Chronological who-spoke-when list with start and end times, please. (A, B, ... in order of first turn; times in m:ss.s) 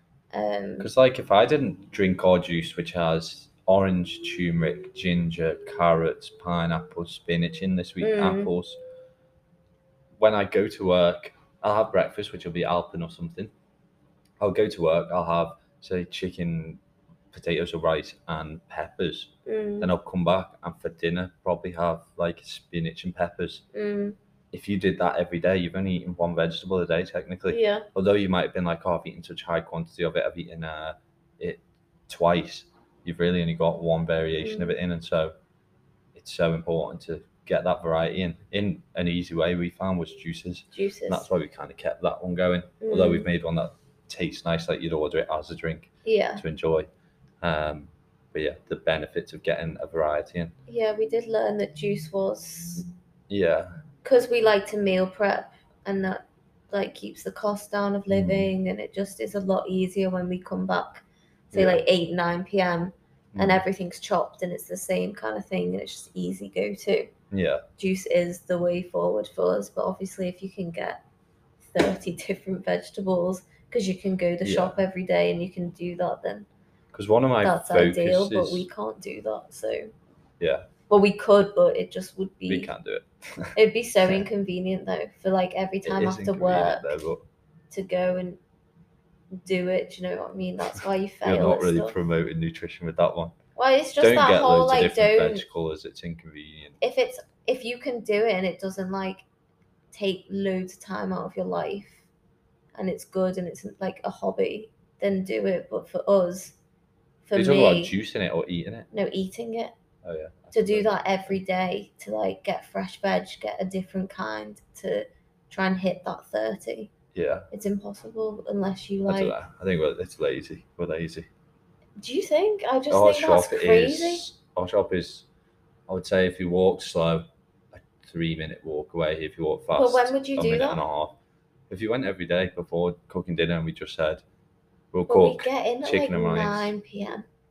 0:00.3-0:00.9 A
0:00.8-0:08.8 B
0:08.0-0:08.5 A
0:10.2-0:13.5 B
0:14.4-0:16.8 B
0:17.3-0:23.6 B
0:19.4-0:19.9 A
0:23.7-0:24.2 A
0:24.5-0:35.3 B
0:27.5-0:27.9 A
0:34.4-0:34.8 A
0:36.1-0:46.9 B
0:40.7-0:41.3 A
0:42.8-0:43.3 A
0:46.0-0:46.4 A
0:47.4-0:50.5 B
0:50.7-0:52.9 A
0:53.3-0:53.7 B
0:54.0-1:07.1 A
0:58.1-0:58.5 B
1:01.5-1:01.8 B
1:03.3-1:03.6 B
1:07.3-1:07.6 B
1:07.8-1:11.0 A
1:11.7-1:16.5 A
1:14.4-1:14.8 B
1:16.9-1:18.7 B
1:17.4-1:19.9 A
1:20.4-1:20.7 B
1:20.9-1:22.7 A
1:22.5-1:23.5 B
1:23.5-1:27.0 A
1:25.8-1:27.2 B
1:27.7-1:28.4 A
1:29.4-1:31.9 A
1:31.2-1:33.4 B
1:33.6-1:35.4 A
1:34.0-1:36.8 B
1:36.8-1:39.2 A
1:39.9-1:42.1 A
1:42.7-1:46.6 A
1:47.2-1:47.9 A
1:47.3-1:48.9 B
1:48.9-1:49.7 A
1:50.0-1:51.4 B
1:50.5-1:56.9 A
1:57.1-1:57.5 B
1:57.5-1:59.3 A
1:59.1-2:01.3 B
2:02.0-2:04.2 A
2:02.9-2:05.2 B
2:05.9-2:07.2 B
2:07.8-2:11.2 B
2:09.7-2:10.8 A
2:11.7-2:14.2 B
2:14.9-2:16.7 B
2:15.1-2:17.2 A